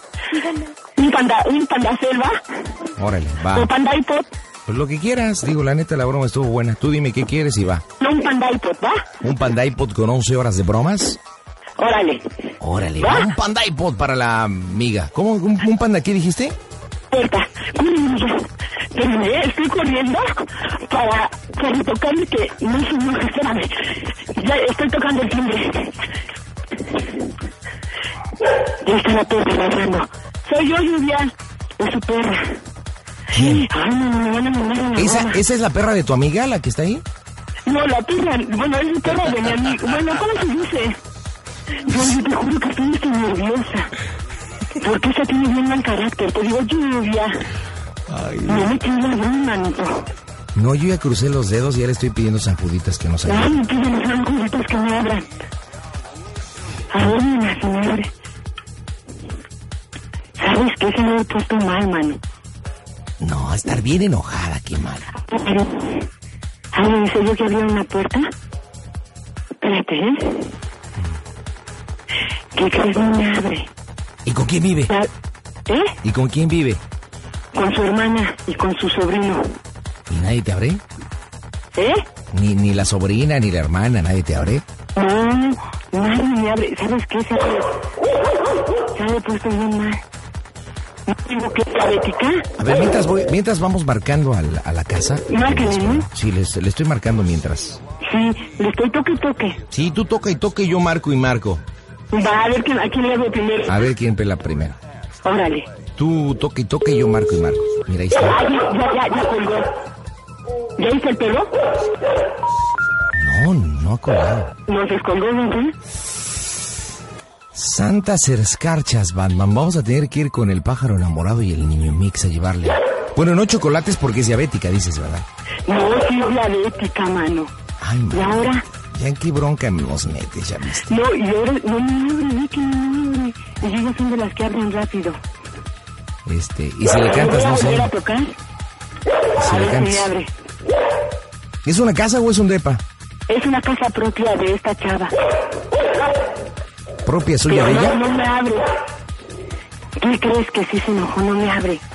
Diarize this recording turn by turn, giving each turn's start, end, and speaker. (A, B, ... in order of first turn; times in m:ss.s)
0:01.0-0:02.4 A
0:03.0-0:03.7 B
0:03.5-0:04.3 A
0:04.7-0:07.8 B
0:08.0-0:09.1 A
0:09.2-0:11.2 B
0:11.8-0:12.2 A
0:12.6-0:16.6 B
0:13.0-0:13.3 A
0:17.1-0:26.0 A
0:28.8-0:32.6 A
0:33.3-0:33.7 B
0:33.4-0:35.4 A
0:35.0-0:37.0 B
0:37.7-0:41.0 A
0:41.9-0:43.9 A
0:44.8-0:47.4 A
0:48.1-0:48.7 B
0:48.5-0:50.1 A
0:50.6-0:53.6 B
0:53.3-0:55.3 A
0:56.9-0:58.1 A
1:00.4-1:02.2 A
1:03.2-1:05.1 B
1:05.2-1:06.1 A
1:06.7-1:08.3 A
1:09.6-1:10.5 A
1:12.5-1:13.7 A
1:14.2-1:14.9 B
1:15.7-1:16.0 A
1:16.0-1:16.8 B
1:17.5-1:19.6 A
1:20.1-1:20.8 B
1:21.7-1:22.0 A
1:22.3-1:24.6 B
1:25.0-1:27.7 A
1:28.9-1:30.0 A
1:31.1-1:32.5 A
1:32.6-1:37.8 B
1:35.3-1:36.1 A
1:38.0-1:39.6 A
1:39.7-1:41.6 B
1:42.1-1:43.8 A
1:43.7-1:44.8 B
1:45.2-1:45.7 A
1:46.0-1:48.4 B
1:48.1-1:49.7 A
1:50.8-1:51.5 A
1:53.2-1:54.6 B
1:54.7-1:55.8 A
1:57.5-2:05.3 B
2:05.7-2:07.5 A
2:07.8-2:10.9 B
2:08.1-2:08.6 A
2:10.9-2:15.2 A
2:16.3-2:17.9 B
2:16.9-2:18.3 A
2:19.4-2:20.1 B
2:19.4-2:20.3 A
2:21.6-2:22.8 B
2:23.3-2:25.1 A
2:27.0-2:28.0 B
2:27.5-2:28.7 A
2:30.0-2:31.8 A